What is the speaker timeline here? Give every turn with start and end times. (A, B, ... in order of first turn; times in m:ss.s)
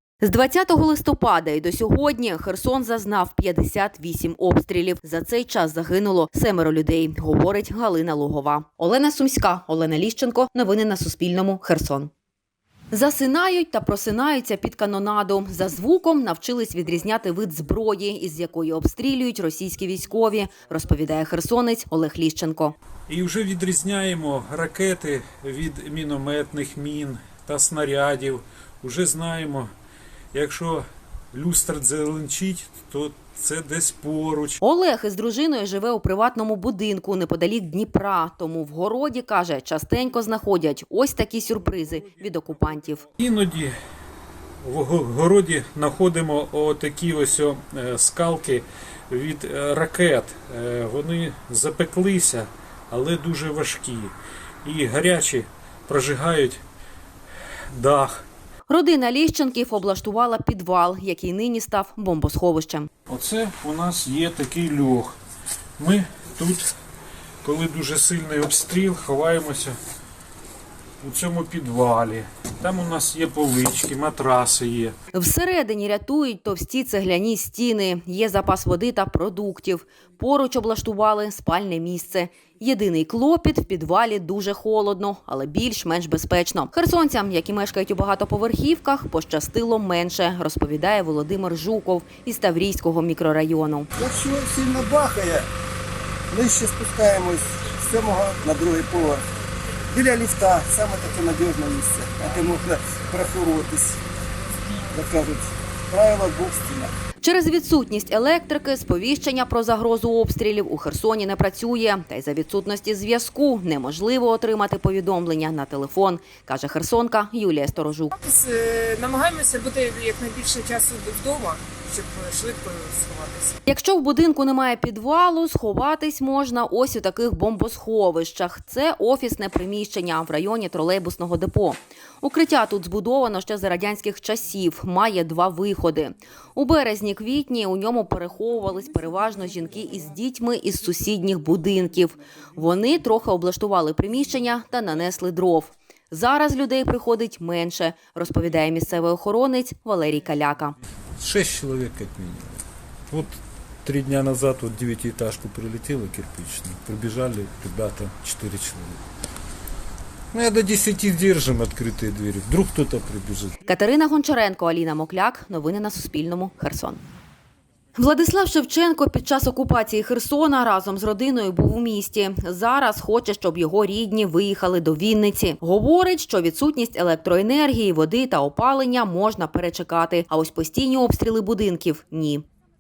0:00.2-0:12.1 A
0:12.9-0:22.7 A
0:23.1-0:29.7 B
0:30.3-0:34.6 B
0:34.6-0:43.0 A
0:43.2-0:43.7 B
0:44.6-0:54.1 B
0:54.6-0:56.6 B
0:57.7-0:58.2 B
0:58.7-1:02.9 A
1:03.1-1:05.2 B
1:05.8-1:06.6 B
1:07.4-1:09.7 B
1:11.0-1:14.9 B
1:15.1-1:33.9 A
1:34.0-1:35.4 C
1:36.3-1:39.2 C
1:40.0-1:43.9 C
1:45.0-1:45.4 C
1:45.9-1:46.9 C
1:47.2-1:58.1 A
1:58.2-2:03.5 D
2:03.7-2:30.8 A
2:31.2-2:32.6 B
2:33.1-2:39.0 B
2:40.3-2:43.5 B
2:43.7-2:47.0 A
2:48.0-3:02.4 A